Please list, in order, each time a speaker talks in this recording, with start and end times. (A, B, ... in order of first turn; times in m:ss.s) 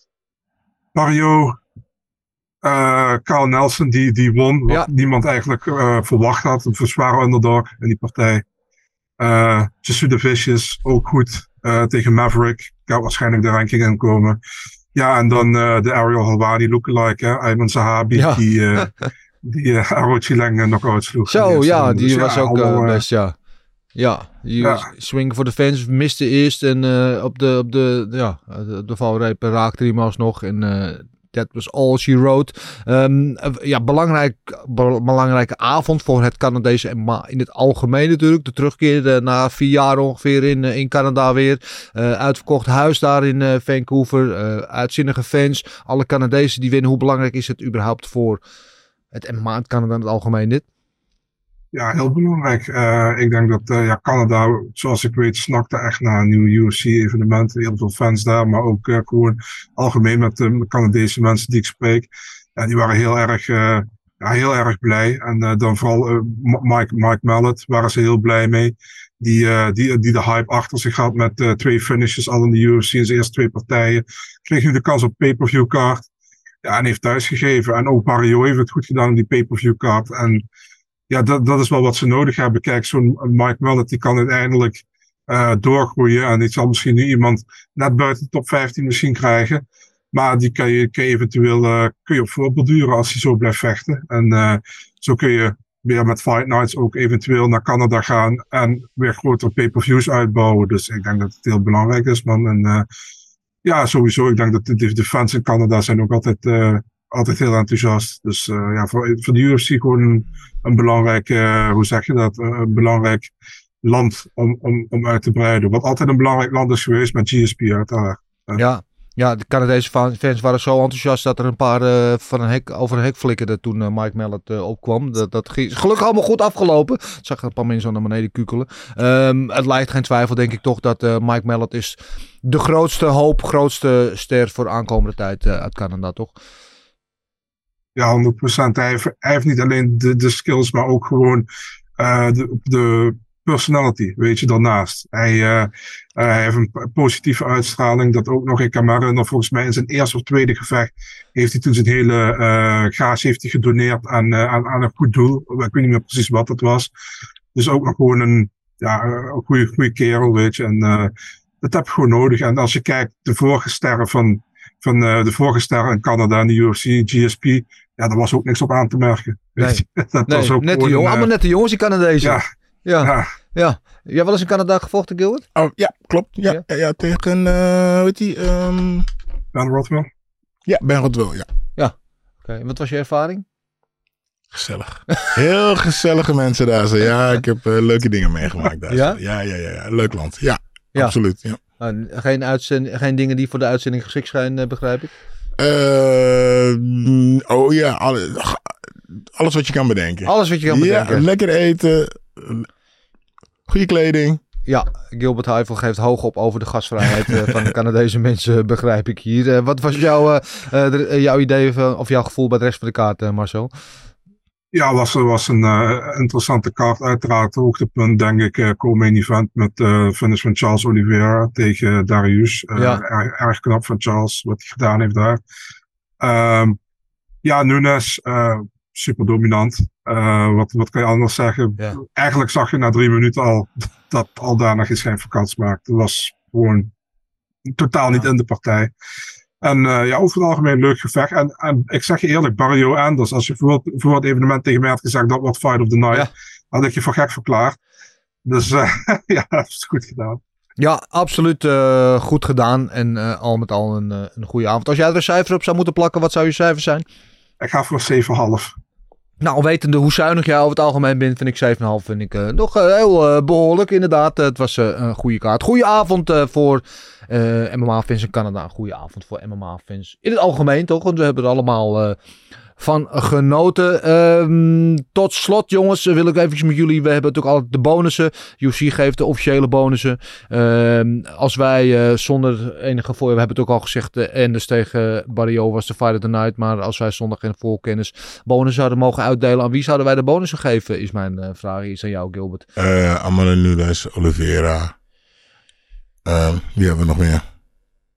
0:00.9-0:01.6 A
0:02.6-0:08.4 A
0:09.2-0:14.4 A
0:15.0-0:18.9 A
0:18.1-0:18.9 B
0:19.4-0:23.0 A
0:21.3-0:23.4 B
0:24.0-0:48.4 B
0:24.6-0:24.9 A
0:49.1-0:50.7 B
0:51.7-1:16.1 A
1:16.6-1:20.4 A
1:21.1-1:42.9 A
1:43.6-1:53.3 A
1:53.8-1:58.6 A
1:58.6-2:16.3 B
2:18.0-2:21.5 A
2:22.0-2:36.9 A
2:37.5-2:51.3 A
2:49.6-2:55.5 B
2:53.0-2:53.3 A
2:55.6-2:59.1 C
2:59.5-3:00.1 A
3:00.7-3:01.5 C
3:01.8-3:03.4 B
3:04.5-3:11.6 C
3:08.9-3:09.2 B
3:11.8-3:15.1 B
3:15.6-3:22.7 C
3:20.2-3:21.3 B
3:23.7-3:24.4 C
3:24.7-3:33.7 B
3:34.7-3:45.4 A
3:42.8-3:43.0 B
3:46.2-3:46.8 A
3:47.4-3:56.9 A
3:57.8-3:58.9 A
3:59.6-4:07.8 A
4:08.5-4:10.4 A
4:10.8-4:17.0 B
4:17.6-4:18.8 A
4:19.4-4:32.2 B
4:32.8-4:52.6 B
4:52.8-4:54.9 C
4:56.2-4:57.4 C